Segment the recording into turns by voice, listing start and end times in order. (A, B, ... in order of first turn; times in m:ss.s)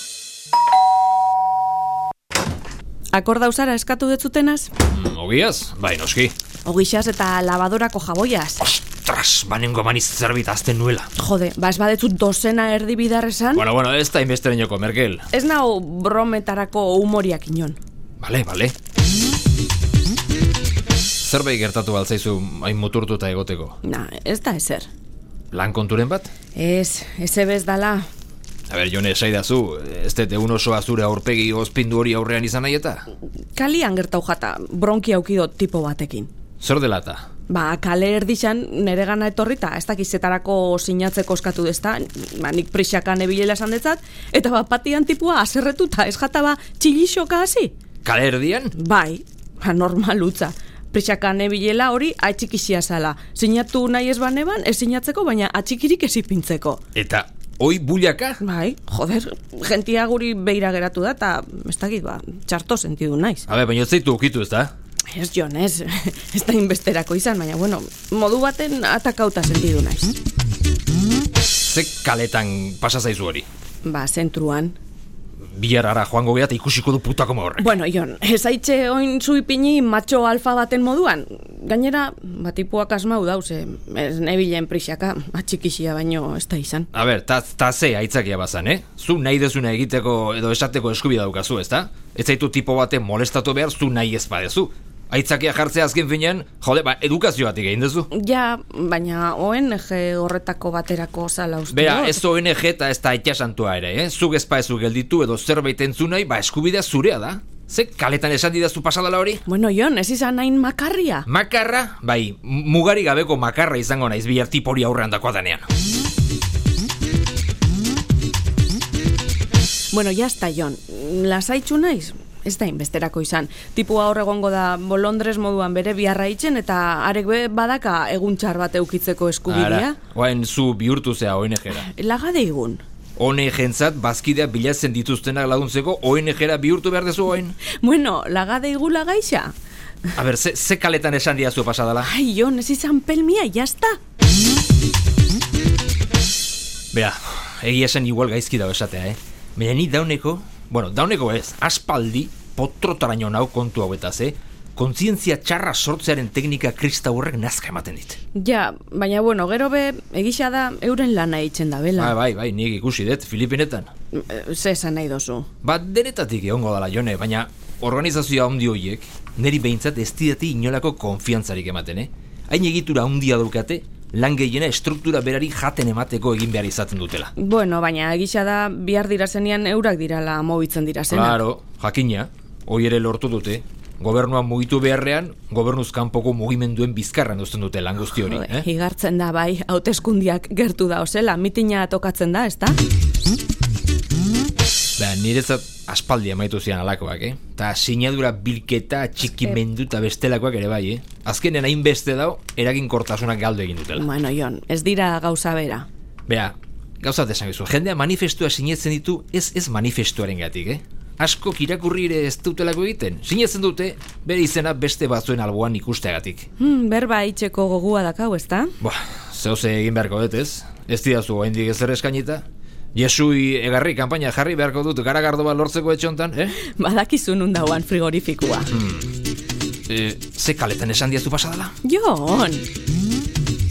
0:03.1-0:04.7 A
0:04.8-0:06.3 B
0:06.6-0:08.7 A
0:08.6-0:11.1 B
0:11.2-0:13.7 A
0:13.5-0:15.2 B
0:15.3-0:17.8 A
0:18.2-0:18.7 B
0:21.2-0:23.8 B
0:23.8-0:24.9 A
0:25.5-0:26.3 B
0:26.5-0:28.1 A
0:28.7-0:33.0 B
0:33.5-0:36.3 A
0:36.6-0:37.3 B
0:37.5-0:47.7 A
0:48.0-0:48.7 B
0:48.7-0:56.8 A
0:56.9-0:58.4 B
0:58.4-1:03.5 A
1:03.5-1:04.7 B
1:05.1-1:10.1 A
1:11.6-1:13.4 B
1:13.8-1:14.8 A
1:15.5-1:17.7 B
1:17.6-1:26.9 A
1:26.9-1:38.1 B
1:38.1-1:42.2 A
1:41.7-1:49.4 B
1:49.4-1:51.2 A
1:51.2-1:55.7 B
1:59.9-2:10.0 A
2:09.5-2:11.9 B
2:11.7-2:12.8 A
2:13.2-2:17.6 B
2:17.8-2:19.5 A
2:20.1-2:22.1 B
2:22.0-2:24.0 A
2:26.9-2:38.2 B
2:38.3-2:42.2 A
2:42.0-2:43.9 B
2:44.1-2:45.5 A
2:45.6-2:57.3 B
2:57.4-3:01.4 A
3:01.1-3:08.6 B
3:08.2-3:12.8 A
3:15.0-3:24.1 B
3:24.0-3:25.9 A
3:26.3-3:36.5 B
3:36.6-3:38.7 A
3:38.8-3:46.6 B
3:46.6-3:48.7 A
3:48.7-3:49.1 B
3:49.9-3:51.7 B
3:51.8-3:52.6 A